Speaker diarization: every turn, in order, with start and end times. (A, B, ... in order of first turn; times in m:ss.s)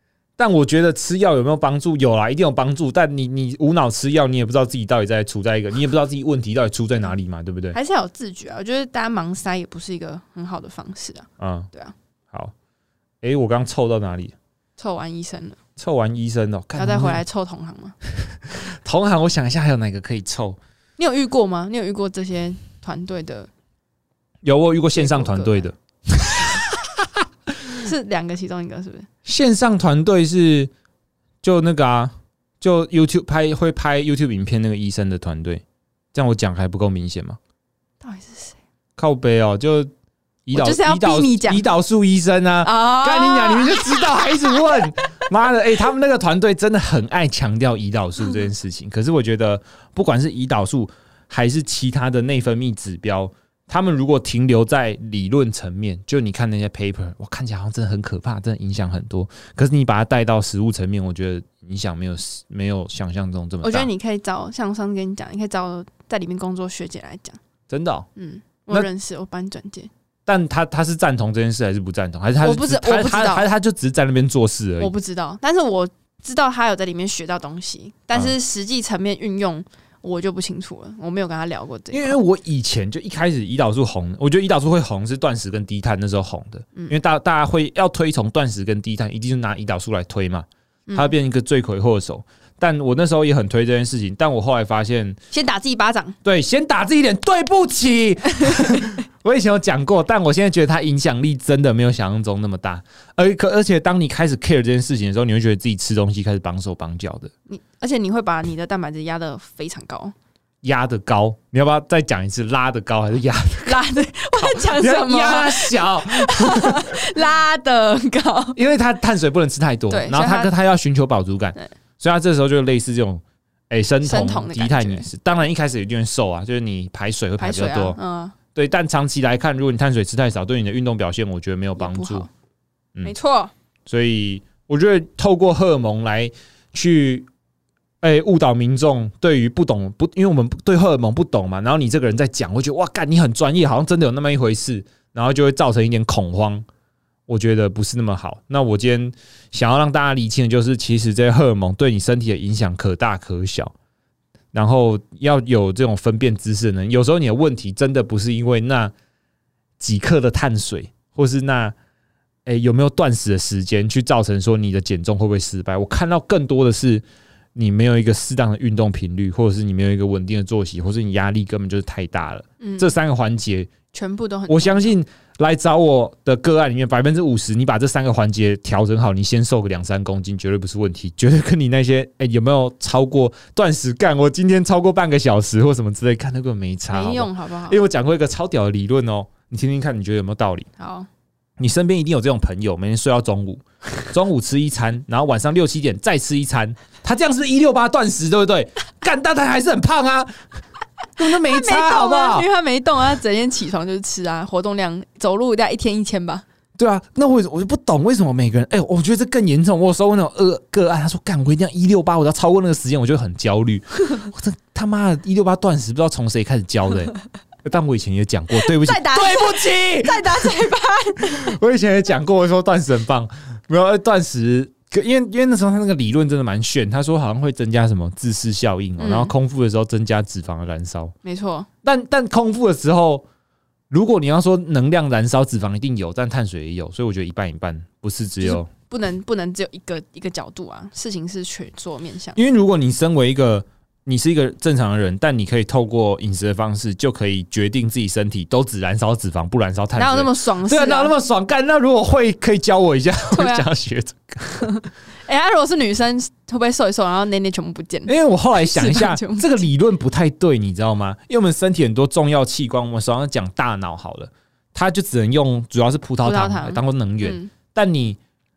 0:00.4-0:07.8 A
0:07.7-0:12.0 B
0:11.4-0:11.7 A
0:13.2-0:14.4 A
0:14.8-0:15.6 B
0:15.8-0:17.2 A
0:16.8-0:18.0 B
0:18.3-0:20.6 A
0:21.0-0:23.5 B
0:24.4-0:27.8 A
0:24.9-0:25.7 B
0:27.8-0:29.1 B
0:29.2-0:30.7 A
0:31.4-0:35.6 A
0:36.1-0:37.4 A
0:38.0-0:38.6 B
0:39.0-0:39.9 A
0:40.5-1:03.9 A
0:40.5-0:41.7 B
0:42.6-0:44.9 B
1:03.6-1:07.4 B
1:07.7-1:08.1 A
1:08.2-1:09.9 B
1:10.3-1:14.9 A
1:12.4-1:13.5 B
1:14.8-1:22.2 B
1:21.9-1:35.2 A
1:30.9-1:31.1 B
1:35.3-1:36.2 B
1:36.2-1:47.3 A
1:38.4-1:38.8 B
1:47.5-1:50.2 B
1:50.6-1:53.8 A
1:53.6-1:58.6 B
1:54.4-1:57.1 A
1:58.6-2:08.0 A
1:59.9-2:00.5 B
2:04.0-2:05.1 B
2:07.4-2:08.4 B
2:08.5-2:12.3 A
2:11.8-2:12.3 B
2:13.0-2:13.5 B
2:13.9-2:17.3 A
2:18.0-2:26.6 A
2:27.3-2:33.7 A
2:34.5-2:38.9 A
2:39.8-2:41.8 A
2:42.5-2:47.0 A
2:47.6-2:53.7 A
2:52.6-2:53.0 B
2:53.9-2:55.0 B
2:54.5-3:10.7 A
3:06.9-3:07.8 B
3:10.8-3:11.1 B
3:11.6-3:20.4 A
3:21.2-3:22.5 A
3:21.2-3:26.4 B
3:26.8-3:37.1 A
3:37.6-3:40.6 A
3:38.5-3:41.6 B
3:41.2-3:51.2 A
3:49.0-3:49.3 B
3:51.2-3:51.7 B
3:51.8-3:53.2 A
3:53.9-3:58.7 A
3:58.4-4:02.4 B
4:02.4-4:14.8 A
4:10.0-4:11.1 B
4:13.3-4:13.7 B
4:14.6-4:19.6 B
4:18.1-4:28.2 A
4:26.2-4:27.5 B